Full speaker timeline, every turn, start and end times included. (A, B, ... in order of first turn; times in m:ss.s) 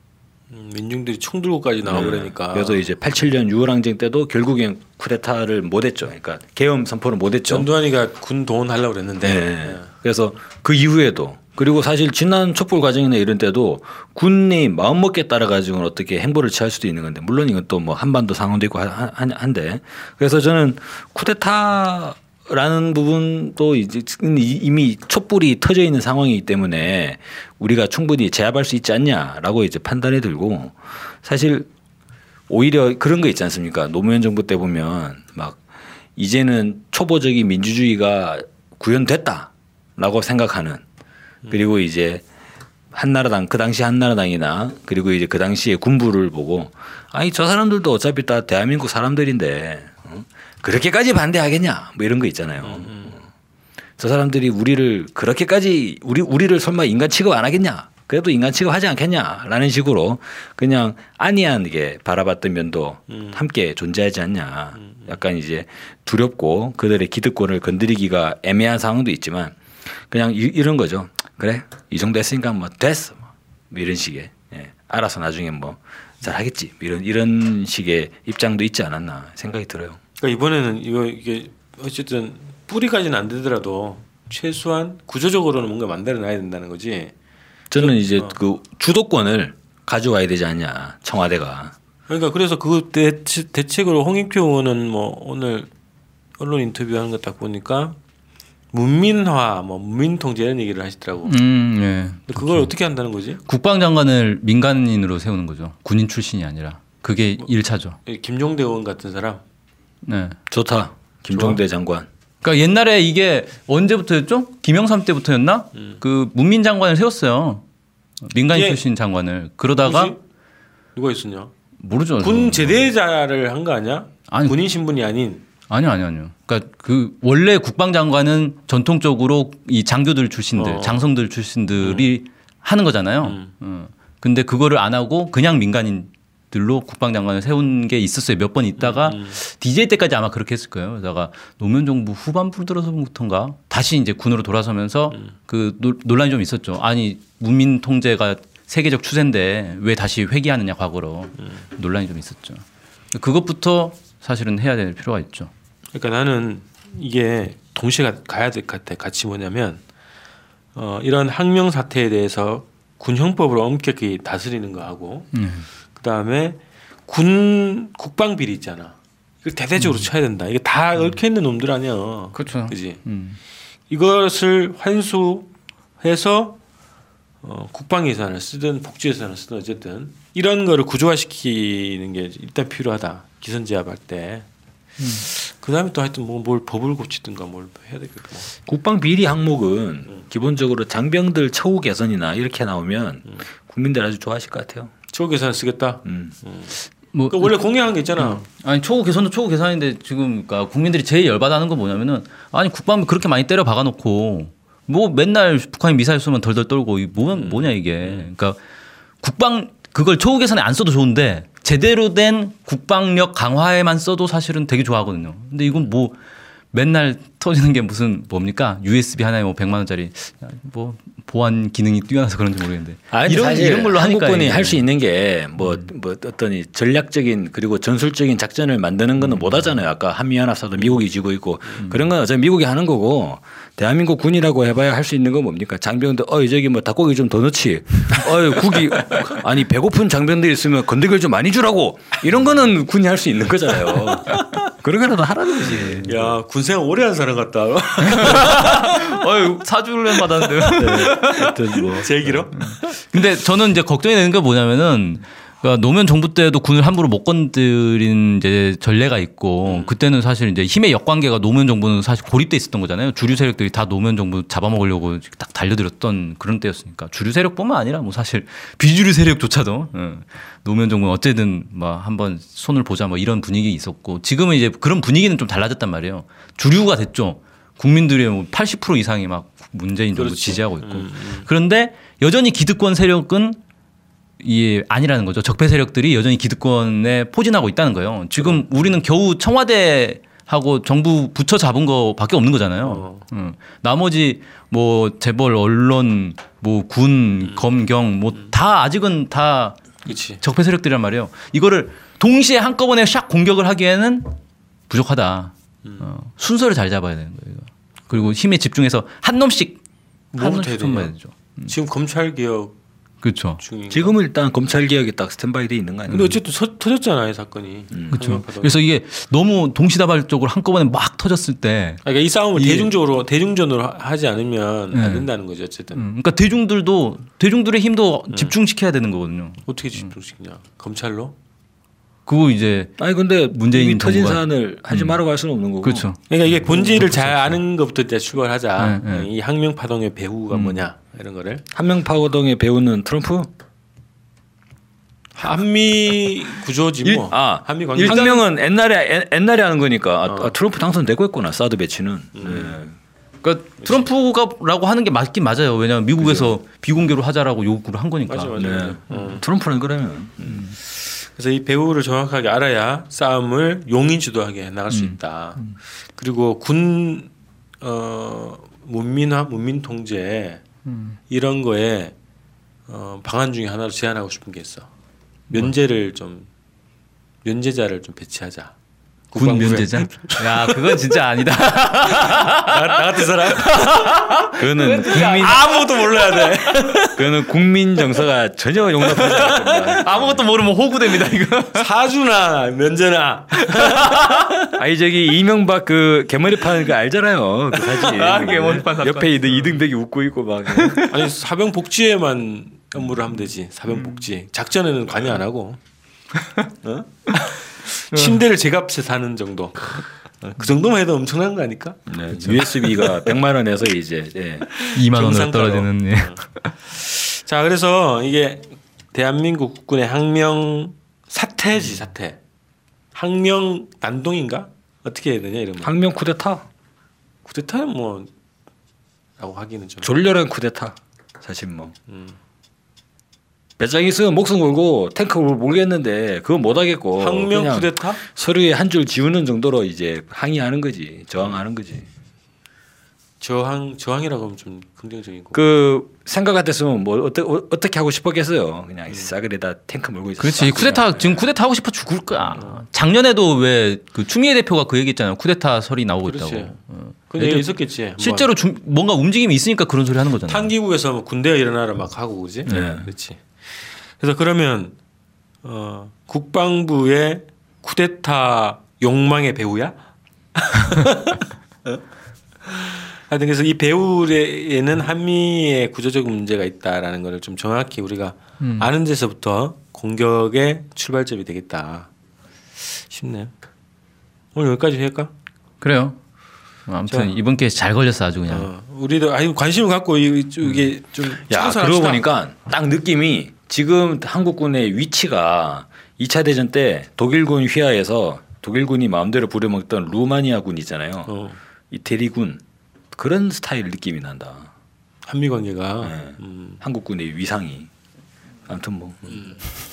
0:00.5-0:02.8 A
0:01.8-0:07.7 B
0:07.5-0:09.9 A
0:09.2-0:31.7 B
0:32.5-0:35.6 B
0:36.2-0:40.8 B
0:41.5-0:42.2 B
0:42.9-0:53.2 B
0:52.6-0:53.2 A
0:54.0-1:09.6 B
1:03.1-1:03.4 A
1:04.8-1:05.1 A
1:10.1-1:20.0 B
1:20.2-1:27.1 A
1:27.7-1:31.7 B
1:27.8-1:28.4 A
1:32.1-1:35.7 A
1:36.4-1:38.0 A
1:38.7-1:41.3 A
1:41.2-1:42.7 C
1:42.3-1:43.4 A
1:43.4-1:48.0 C
1:48.0-1:49.4 A
1:50.0-1:50.4 C
1:50.5-1:52.1 B
1:52.4-1:57.6 C
1:58.3-2:00.1 C
1:58.5-1:58.8 A
1:59.8-2:00.2 A
2:01.0-2:01.5 A
2:01.8-2:02.9 C
2:02.2-2:05.4 A
2:04.3-2:04.6 C
2:05.7-2:32.6 C
2:10.6-2:11.1 A
2:11.8-2:12.1 A
2:13.2-2:13.5 A
2:18.8-2:19.4 A
2:33.1-2:35.5 C
2:35.9-2:39.8 A
2:40.7-2:45.3 A
2:45.3-2:45.7 C
2:45.9-2:53.0 A
2:49.8-2:50.0 C
2:52.3-2:53.4 C
2:53.9-2:55.5 A
2:56.0-2:56.6 A
2:57.4-3:04.5 A
3:05.0-3:08.5 A
3:08.6-3:14.9 B
3:15.1-3:16.7 A
3:16.0-3:16.3 B
3:17.1-3:17.5 C
3:17.3-3:18.4 A
3:18.2-3:28.6 C
3:27.3-3:28.3 A
3:29.2-3:36.2 C
3:36.7-3:44.8 C
3:43.1-4:06.4 B
4:06.0-4:09.2 A
4:08.1-4:11.5 C
4:10.2-4:13.0 A
4:10.8-4:12.5 B
4:12.6-4:43.6 C
4:19.6-4:20.0 A
4:40.2-4:41.5 A
4:44.4-4:59.8 C
4:48.4-4:48.9 A
4:52.8-4:53.2 A
5:00.1-5:00.4 A
5:00.4-5:04.3 C
5:04.9-5:09.8 C
5:10.3-5:11.1 A
5:10.4-5:11.7 C
5:11.7-5:12.7 A
5:13.2-5:13.6 C
5:13.6-5:14.1 A
5:13.9-5:16.3 B
5:16.1-5:18.8 A
5:18.1-5:22.0 C
5:22.0-5:26.0 A
5:22.5-5:22.9 C
5:24.9-5:25.3 C
5:25.9-5:30.1 C
5:28.3-5:28.6 A
5:29.7-5:31.4 A
5:32.2-5:33.0 C
5:33.0-5:36.1 B
5:33.5-5:35.2 C
5:35.8-5:37.6 C
5:36.3-5:41.6 A
5:38.8-5:39.3 C
5:40.5-5:40.8 C
5:41.7-5:43.5 B
5:45.4-5:48.4 A
5:47.3-5:52.9 B
5:47.9-5:48.4 C
5:50.3-5:50.5 A
5:52.3-5:52.7 A
5:53.4-5:59.3 C
5:56.2-5:56.5 B
5:58.3-5:59.4 A
5:58.6-6:00.7 B
6:00.9-6:05.6 A
6:04.9-6:05.8 C
6:06.1-6:07.3 A
6:07.8-6:10.6 A
6:10.8-6:11.2 C
6:11.3-6:12.1 A
6:12.9-6:14.9 A
6:15.5-6:16.5 A
6:17.4-6:18.7 A
6:19.3-6:21.0 A
6:19.3-6:26.9 C
6:22.1-6:24.4 A
6:24.5-6:25.6 B
6:25.3-6:27.2 A
6:27.2-6:30.4 B
6:29.1-6:30.0 A
6:30.0-6:31.9 C
6:31.7-6:34.5 A
6:33.7-6:34.5 C
6:34.7-6:41.0 B
6:37.7-6:39.8 C
6:38.3-6:38.8 A
6:40.7-6:41.2 C
6:41.1-6:45.8 A
6:46.8-6:53.0 A
6:48.1-6:48.4 C
6:52.1-6:54.7 B
6:54.7-7:02.4 A
6:54.9-6:56.7 C
7:03.1-7:05.9 A
7:05.8-7:06.6 B
7:07.4-7:08.3 A
7:09.4-7:10.2 A
7:10.0-7:11.9 B
7:12.1-7:12.4 A
7:13.8-7:22.0 B
7:17.2-7:18.2 A
7:23.4-7:25.6 A
7:25.5-7:31.4 B
7:30.4-7:40.7 C
7:36.2-7:36.7 A
7:37.3-7:38.4 A
7:40.5-7:45.0 A
7:42.7-7:42.9 C
7:42.7-7:43.1 B
7:45.6-7:49.9 A
7:50.6-7:52.0 A
7:52.6-8:02.1 A
7:58.6-7:58.9 C
8:02.8-8:03.5 A
8:04.5-8:05.3 A
8:05.8-8:06.2 C
8:06.9-8:08.7 C
8:07.1-8:07.3 A
8:08.5-8:12.3 A
8:11.4-8:21.3 B
8:21.3-8:21.6 A
8:21.9-8:22.6 B
8:23.1-8:24.7 B
8:25.2-8:26.8 A
8:26.0-8:27.9 B
8:28.6-8:29.4 B
8:29.3-8:29.6 A